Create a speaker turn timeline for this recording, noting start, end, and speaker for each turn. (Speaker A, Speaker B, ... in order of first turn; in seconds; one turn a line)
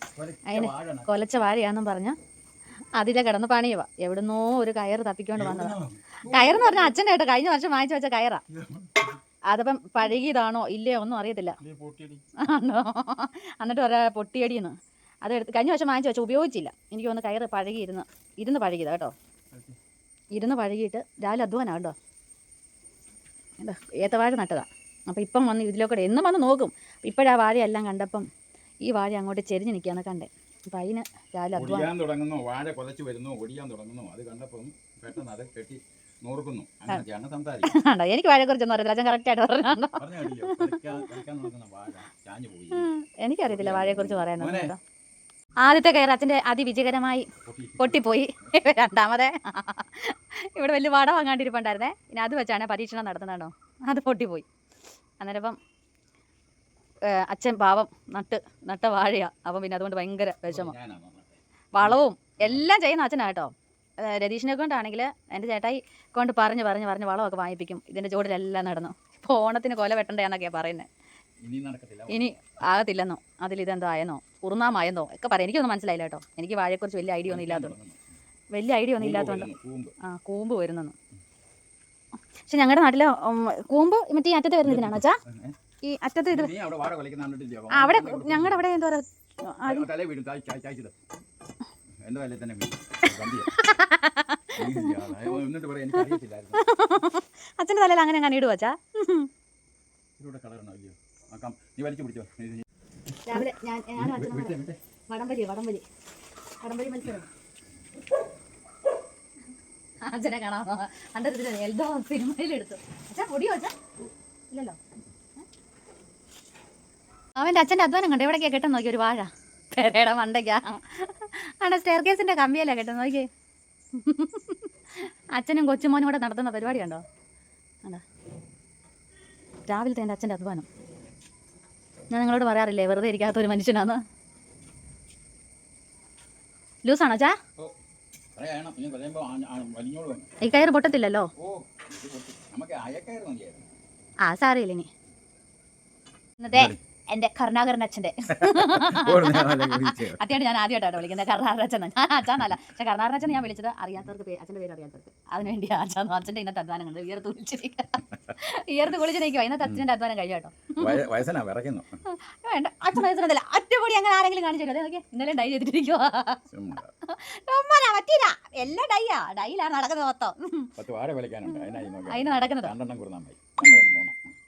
Speaker A: 0.2-1.1
Speaker B: 0.5-2.2
Speaker B: 3.0-8.4
Speaker A: 5.3-6.9
Speaker A: 8.5-9.2
Speaker B: 9.5-11.6
Speaker A: 11.6-12.2
Speaker B: 12.4-19.1
Speaker B: 20.4-21.9
Speaker B: 23.6-28.3
Speaker B: 28.8-31.9
Speaker A: 31.5-37.8
Speaker B: 37.6-41.1
Speaker A: 40.0-42.9
Speaker B: 42.7-44.8
Speaker A: 43.5-44.7
Speaker B: 45.6-47.3
Speaker A: 47.4-48.0
Speaker B: 47.8-54.5
Speaker B: 55.2-55.6
Speaker B: 57.1-60.8
Speaker A: 60.5-62.7
Speaker B: 61.8-70.9
Speaker A: 71.4-72.3
Speaker B: 72.1-77.7
Speaker A: 77.2-78.1
Speaker B: 78.5-79.5
Speaker A: 79.0-79.9
Speaker B: 80.0-81.0
Speaker B: 82.5-85.2
Speaker A: 84.6-85.6
Speaker B: 85.8-86.5
Speaker A: 86.3-88.7
Speaker B: 87.7-89.8
Speaker A: 89.7-91.0
Speaker A: 92.0-93.5
Speaker B: 93.1-95.4
Speaker A: 94.6-96.6
Speaker B: 95.9-99.3
Speaker A: 100.2-102.7
Speaker B: 103.3-105.8
Speaker A: 103.3-104.8
Speaker B: 106.6-107.3
Speaker B: 110.0-113.8
Speaker B: 114.5-114.8
Speaker B: 117.4-123.3
Speaker B: 123.9-127.0
Speaker B: 129.7-130.7
Speaker B: 132.1-134.0
Speaker B: 136.8-137.4
Speaker A: 138.4-140.3
Speaker B: 140.4-141.3
Speaker A: 141.4-143.7
Speaker B: 144.2-144.9
Speaker B: 146.4-161.0
Speaker A: 146.5-146.8
Speaker A: 148.3-150.3
Speaker A: 160.8-162.0
Speaker B: 162.1-166.4
Speaker A: 166.5-166.9
Speaker B: 167.0-170.7
Speaker A: 170.8-174.3
Speaker B: 171.5-172.7